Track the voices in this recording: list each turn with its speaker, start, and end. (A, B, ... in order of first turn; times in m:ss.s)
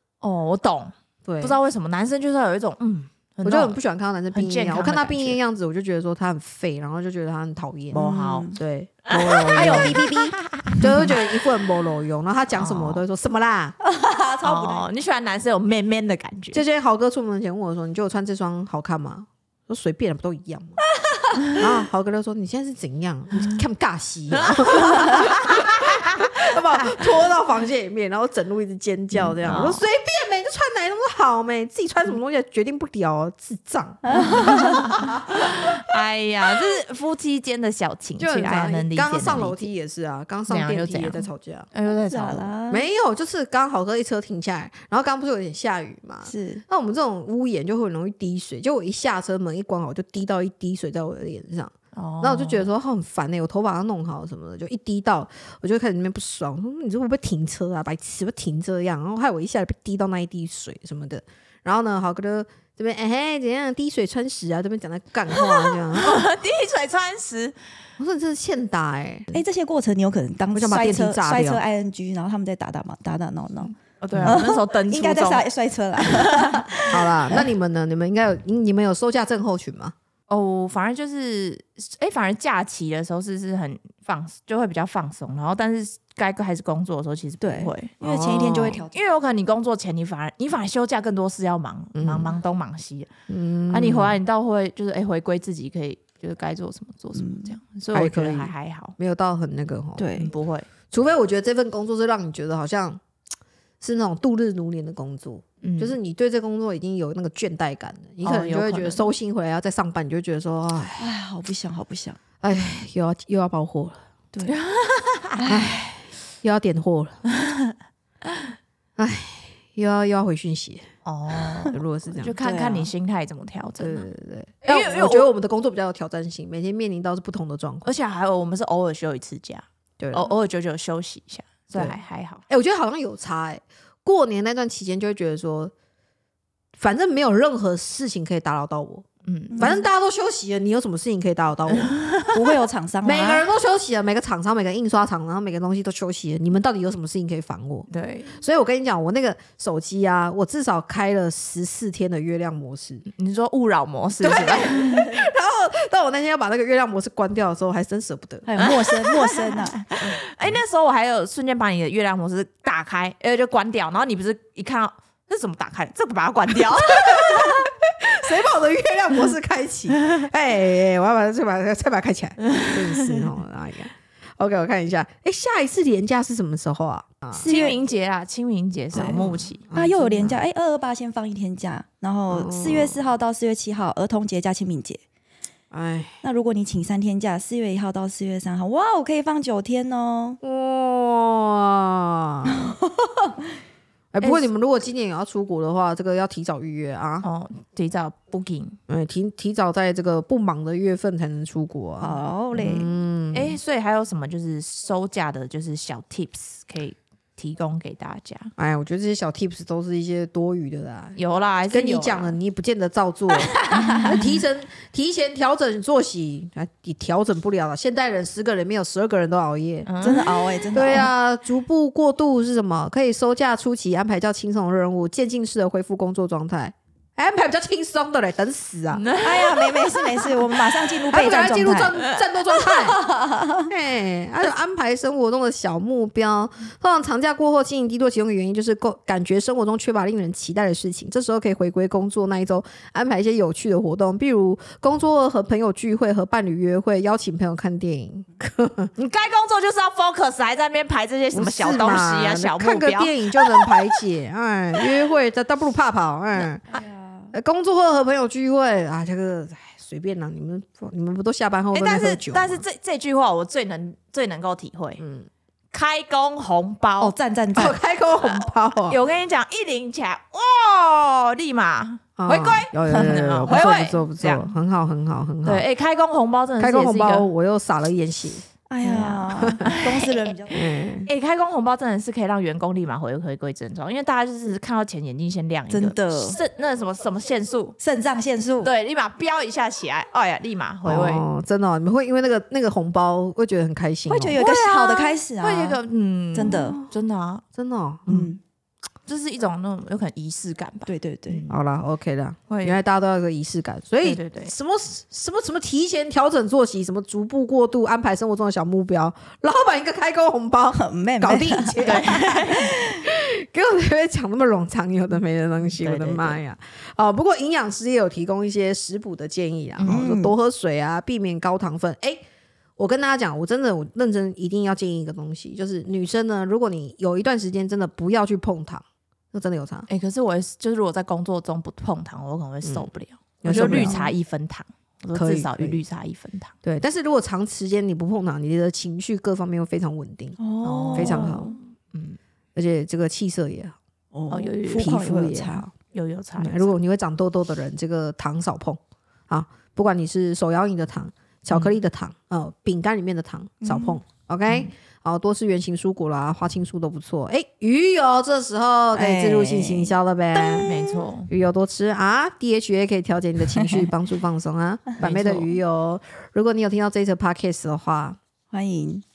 0:00.2-0:03.8 A
0:01.2-0:01.6 B
0:03.4-0:10.0 B
0:04.3-0:05.4 A
0:07.9-0:08.6 C
0:07.9-0:08.5 A
0:09.1-0:11.2 A
0:09.5-0:10.4 C
0:10.8-0:13.8 B
0:12.5-0:13.0 A
0:13.8-0:14.9 C
0:14.4-0:16.6 A
0:16.5-0:20.8 B
0:21.5-0:35.8 B
0:24.3-0:26.3 A
0:29.2-0:29.8 A
0:34.0-0:34.9 C
0:34.4-0:39.7 A
0:38.2-0:41.7 B
0:40.5-0:42.5 A
0:42.1-0:42.8 C
0:42.7-1:06.3 B
0:46.2-0:46.6 C
0:51.9-0:52.7 A
1:05.9-1:07.6 A
1:08.0-1:09.4 B
1:09.3-1:17.4 C
1:10.5-1:11.6 B
1:14.0-1:15.4 A
1:14.1-1:14.4 B
1:16.0-1:16.6 A
1:16.9-1:19.9 B
1:20.3-1:33.1 A
1:27.4-1:29.0 C
1:31.9-1:32.3 B
1:33.3-1:34.2 B
1:33.7-1:38.9 A
1:37.2-1:37.5 C
1:37.9-1:40.3 B
1:40.0-1:40.3 C
1:40.1-1:40.7 A
1:40.9-1:43.0 B
1:43.8-1:51.1 B
1:45.6-1:46.0 A
1:48.2-1:49.0 A
1:51.0-1:52.2 C
1:52.4-1:54.0 B
1:54.4-1:55.4 A
1:55.4-1:55.8 C
1:55.5-1:57.2 B
1:57.4-1:57.7 A
1:59.0-2:00.9 B
2:01.0-2:04.1 A
2:01.7-2:02.3 B
2:02.4-2:02.9 C
2:03.8-2:07.9 B
2:04.6-2:05.3 A
2:07.8-2:12.4 A
2:10.0-2:10.3 B
2:12.5-2:15.7 B
2:16.8-2:19.0 B
2:19.2-2:19.8 A
2:19.5-2:19.8 C
2:19.6-2:22.0 B
2:21.8-2:22.4 A
2:22.3-2:23.5 C
2:23.0-2:33.1 B
2:27.9-2:28.4 A
2:33.2-2:35.0 A
2:34.2-2:38.8 B
2:38.4-2:40.2 C
2:38.6-2:47.7 A
2:46.9-2:57.4 B
2:52.4-2:53.3 A
2:57.4-2:57.8 C
2:57.4-2:59.6 A
2:58.9-3:00.4 B
2:58.9-3:05.0 C
3:02.3-3:03.0 B
3:05.7-3:06.2 B
3:06.2-3:10.4 C
3:10.4-3:12.8 B
3:14.1-3:17.2 B
3:14.2-3:14.5 A
3:17.2-3:18.8 A
3:18.9-3:23.6 B
3:22.0-3:22.9 C
3:23.3-3:28.5 A
3:28.6-3:31.2 B
3:31.2-3:32.4 A
3:31.7-3:39.9 B
3:33.4-3:34.1 A
3:39.8-3:40.6 A
3:40.0-3:41.1 C
3:40.7-3:49.0 B
3:48.9-3:50.3 A
3:49.2-3:52.0 C
3:51.1-3:53.0 B
3:52.7-3:53.7 C
3:53.7-4:08.9 B
4:09.0-4:14.0 A
4:11.3-4:16.6 B
4:16.7-4:17.3 C
4:17.3-4:22.6 B
4:21.7-4:25.0 A
4:25.0-4:25.3 B
4:25.7-4:34.5 A
4:27.0-4:27.8 C
4:27.5-4:29.0 B
4:32.2-4:35.6 B
4:32.9-4:33.6 C
4:35.4-4:37.3 A
4:36.6-4:38.4 B
4:38.7-4:40.6 C
4:38.8-4:47.8 A
4:39.3-4:39.7 B
4:40.5-4:41.1 B
4:45.7-4:46.4 C
4:47.8-4:48.7 C
4:48.6-4:51.2 A
4:50.8-4:54.4 B
4:54.1-4:55.8 C
4:54.4-4:57.4 A
4:56.3-4:56.8 C
4:56.5-4:56.9 B
4:57.5-4:58.3 B
4:58.1-4:58.4 C
4:59.1-5:01.5 A
5:00.9-5:01.4 C
5:01.5-5:22.2 B
5:02.5-5:02.8 A
5:04.0-5:04.5 A
5:10.7-5:12.8 C
5:11.8-5:12.8 A
5:15.8-5:16.4 A
5:19.8-5:20.0 A
5:19.8-5:20.4 C
5:22.8-5:29.9 B
5:29.9-5:36.5 A
5:32.6-5:32.9 B
5:33.4-5:34.0 B
5:33.5-5:34.1 C
5:35.1-5:35.8 B
5:36.6-5:40.4 B
5:40.4-5:41.6 C
5:40.6-5:42.2 A
5:40.9-5:41.5 B
5:42.6-5:43.8 B
5:44.1-5:45.6 C
5:44.3-5:44.9 A
5:44.7-5:45.7 B
5:45.8-5:46.7 A
5:46.4-6:00.7 B
5:53.6-5:54.0 C
5:58.9-6:01.0 C
6:00.6-6:01.3 A
6:01.3-6:08.2 B
6:05.0-6:05.6 A
6:08.5-6:09.0 C